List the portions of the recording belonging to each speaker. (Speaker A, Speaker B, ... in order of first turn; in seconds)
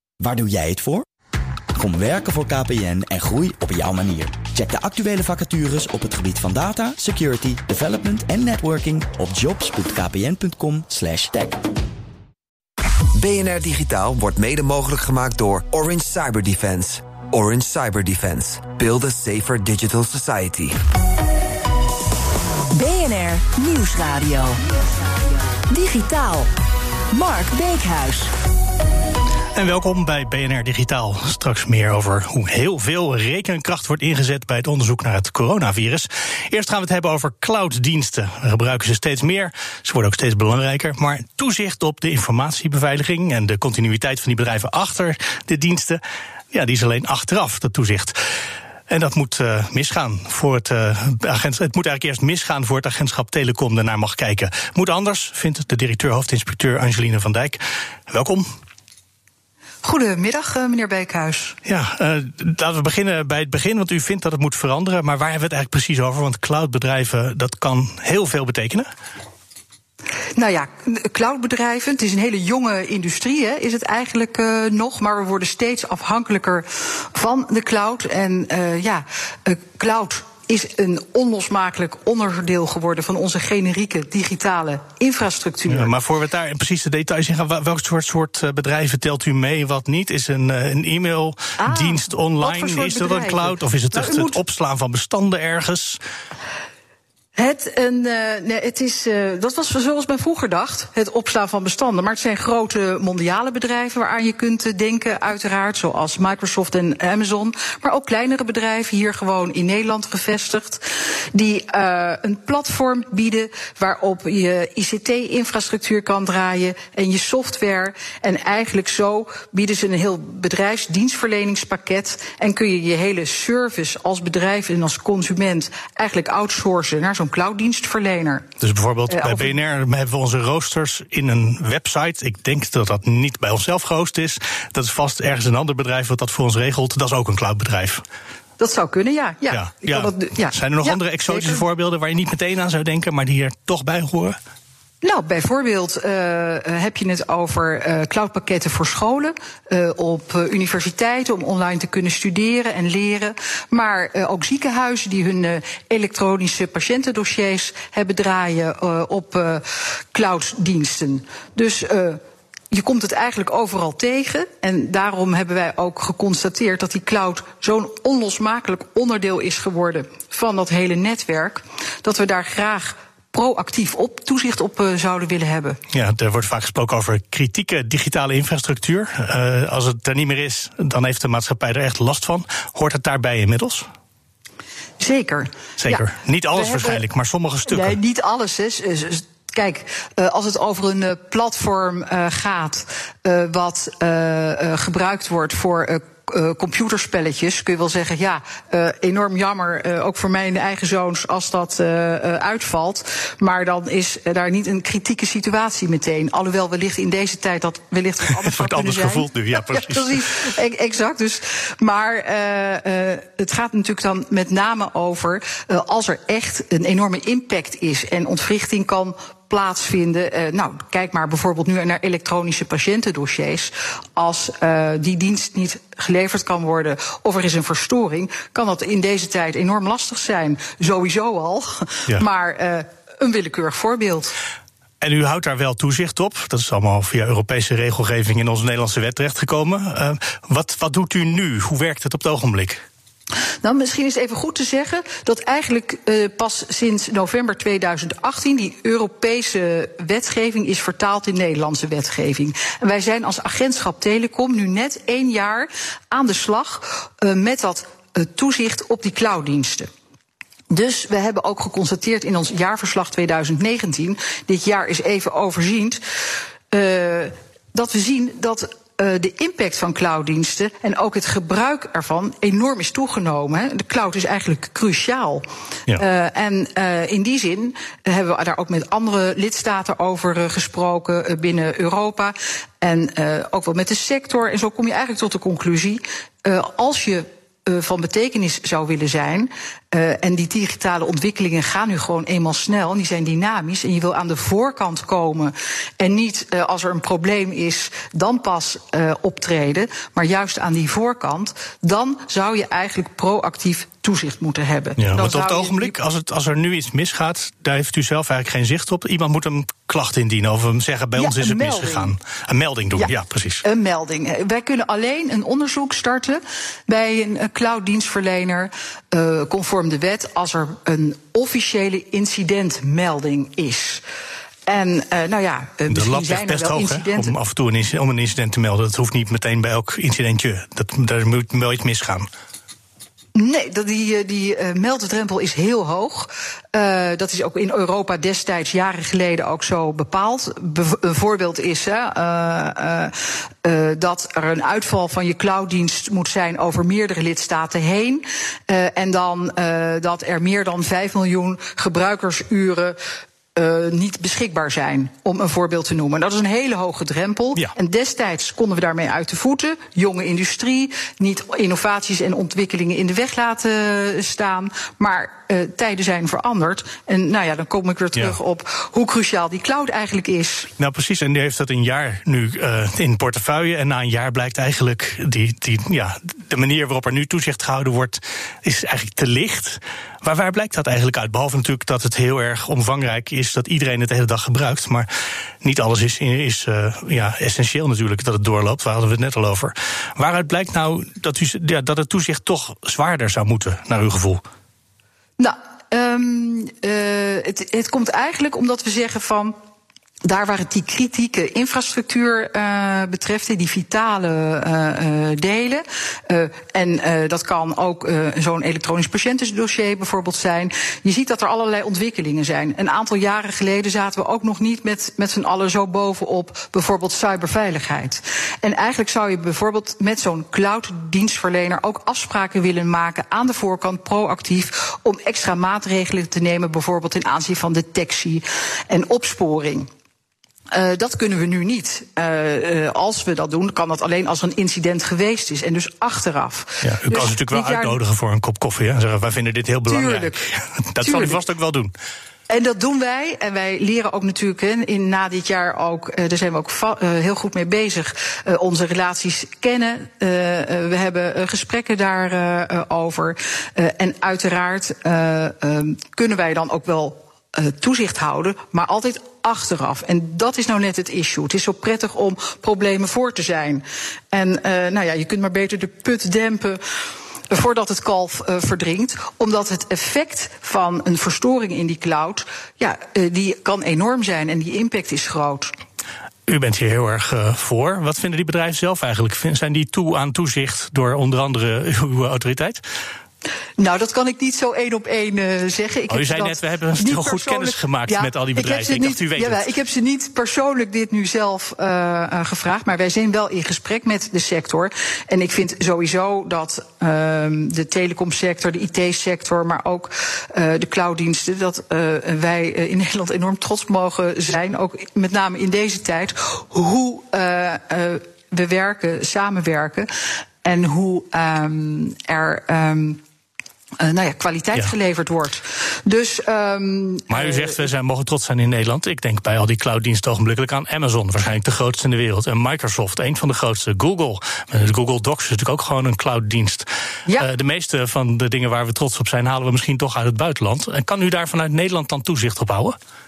Speaker A: 0.2-1.1, 1.8-11.6
Speaker B: 13.2-20.8
Speaker C: 22.7-24.6, 25.7-26.5, 27.1-28.3
Speaker D: 29.6-46.0, 46.5-48.2, 48.9-58.5, 61.7-68.9, 85.7-96.0, 128.6-138.0, 139.5-144.4, 175.9-183.9, 185.8-188.0, 208.4-210.4, 235.0-242.8, 305.0-313.6, 325.9-332.3, 370.8-385.1, 385.6-394.4, 436.8-441.9, 476.5-482.8, 486.1-489.6, 517.3-533.0
Speaker E: 59.8-61.6, 70.4-85.9, 91.6-94.4, 97.4-128.4, 129.1-129.6, 138.6-141.6, 145.0-162.2, 162.7-175.8, 185.0-187.0, 187.7-234.3, 243.6-259.9, 260.7-266.0, 266.7-275.4, 276.0-305.9, 311.2-312.1, 313.6-324.0, 324.7-327.3, 333.4-353.0, 353.6-370.7, 395.4-399.6, 400.2-429.9, 430.7-438.0, 439.9-440.5, 441.0-441.4, 442.5-466.8, 467.5-475.7, 483.8-510.1, 510.6-513.2, 514.0-517.8